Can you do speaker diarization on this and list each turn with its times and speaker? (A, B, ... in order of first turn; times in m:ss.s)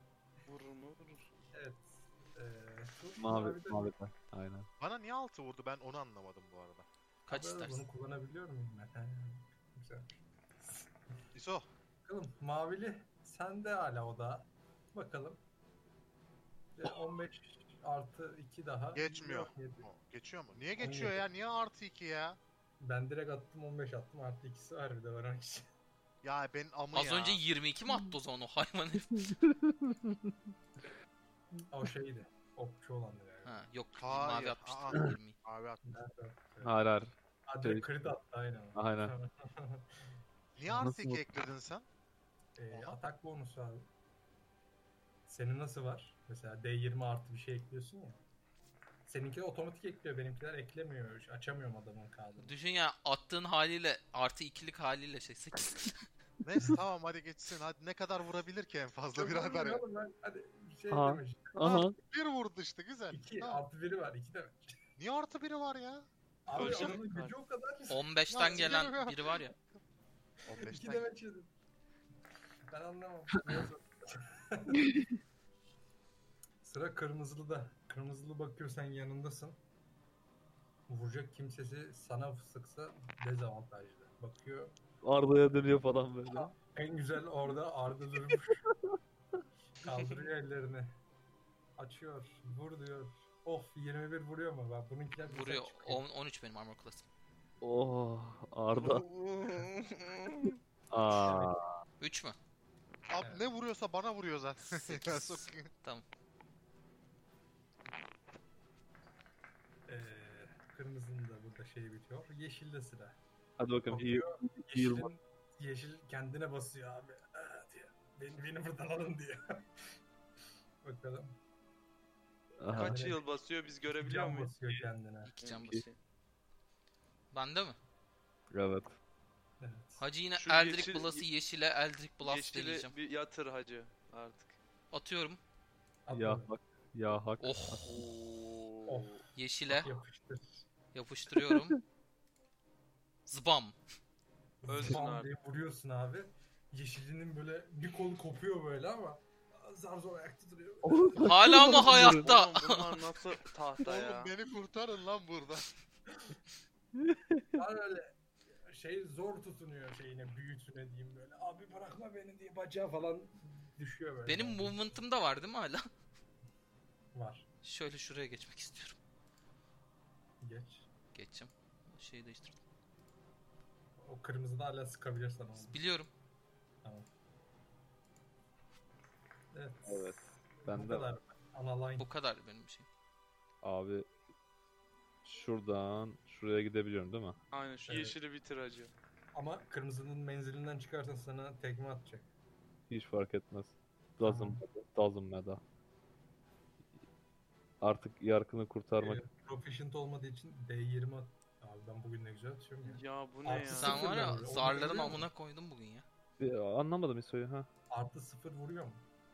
0:00.4-0:01.3 A
0:01.5-0:03.9 B
0:03.2-0:04.7 C
0:04.8-0:06.9 D
0:07.3-0:07.9 E
0:07.3-0:10.9 B
0:11.3-0:11.7 D
0:12.0-0:15.4 B
0:16.8-0:19.9 B
0:18.9-0:22.4 D
0:20.8-0:21.2 B
0:22.8-0:25.6 B
0:26.2-0:27.4 D
0:26.9-0:29.2 E
0:29.1-0:30.3 C
0:31.7-0:33.6 B
0:33.4-0:35.4 E
0:34.0-0:36.0 D
0:35.8-0:36.7 B
0:36.6-0:37.9 C
0:37.4-0:39.9 B
0:38.7-0:39.1 C
0:40.5-0:41.9 D
0:40.7-0:41.2 C
0:42.6-0:43.8 B
0:42.7-0:43.0 D
0:45.2-0:48.2 B
0:49.0-0:52.5 B
0:52.4-0:56.0 E
0:56.4-0:59.8 D
0:59.1-1:01.9 B
1:00.9-1:02.0 C
1:02.1-1:03.6 D
1:03.1-1:04.7 B
1:05.0-1:06.0 D
1:06.4-1:08.8 B
1:06.5-1:07.3 A
1:06.6-1:06.9 D
1:07.9-1:09.5 E
1:08.3-1:09.3 D
1:10.5-1:11.1 D
1:10.5-1:11.5 B
1:12.7-1:14.9 B
1:16.6-1:19.6 B
1:20.9-1:24.7 B
1:25.0-1:26.5 C
1:26.3-1:28.6 B
1:29.8-1:31.0 B
1:31.8-1:36.0 B
1:35.2-1:37.0 E
1:37.6-1:39.0 C
1:38.7-1:39.8 D
1:40.9-1:41.7 C
1:41.1-1:41.6 B
1:42.0-1:42.4 E
1:43.1-1:45.7 D
1:43.2-1:43.5 B
1:44.7-1:46.0 E
1:49.9-1:53.2 B
1:53.6-1:55.1 C
1:53.9-1:59.4 B
2:00.8-2:01.4 B
2:02.6-2:03.1 C
2:02.7-2:03.3 B
2:02.7-2:04.5 A
2:03.9-2:05.3 B
2:05.2-2:05.8 E
2:05.4-2:06.0 A
2:07.3-2:07.8 E
2:08.5-2:08.9 C
2:09.6-2:10.0 B
2:10.0-2:12.9 E
2:10.3-2:11.2 A
2:12.2-2:14.6 A
2:14.9-2:15.4 E
2:16.0-2:16.5 B
2:16.1-2:17.8 C
2:17.4-2:17.8 E
2:17.8-2:19.2 A
2:18.8-2:20.7 B
2:19.3-2:19.9 E
2:20.9-2:21.8 E
2:23.2-2:23.8 E
2:24.6-2:32.1 B
2:24.6-2:25.3 A
2:30.8-2:32.3 C
2:31.2-2:33.0 E
2:32.2-2:34.3 A
2:33.8-2:35.6 D
2:37.0-2:37.6 C
2:37.6-2:38.1 B
2:38.7-2:44.9 B
2:44.2-2:45.8 E
2:47.1-2:47.5 B
2:47.6-2:49.0 E
2:50.4-2:50.9 B
2:51.1-2:52.6 E
2:54.0-2:55.8 B
2:55.5-2:56.1 E
2:59.5-3:02.1 B
2:59.8-3:01.1 C
3:02.0-3:02.9 E
3:03.6-3:04.1 C
3:05.2-3:07.4 C
3:07.5-3:08.9 A
3:07.8-3:08.2 B
3:09.3-3:12.3 B
3:12.9-3:15.6 C
3:14.2-3:14.6 B
3:17.8-3:19.2 C
3:19.0-3:25.3 B
3:22.8-3:24.2 A
3:23.7-3:26.0 E
3:26.4-3:27.7 C
3:27.9-3:29.0 B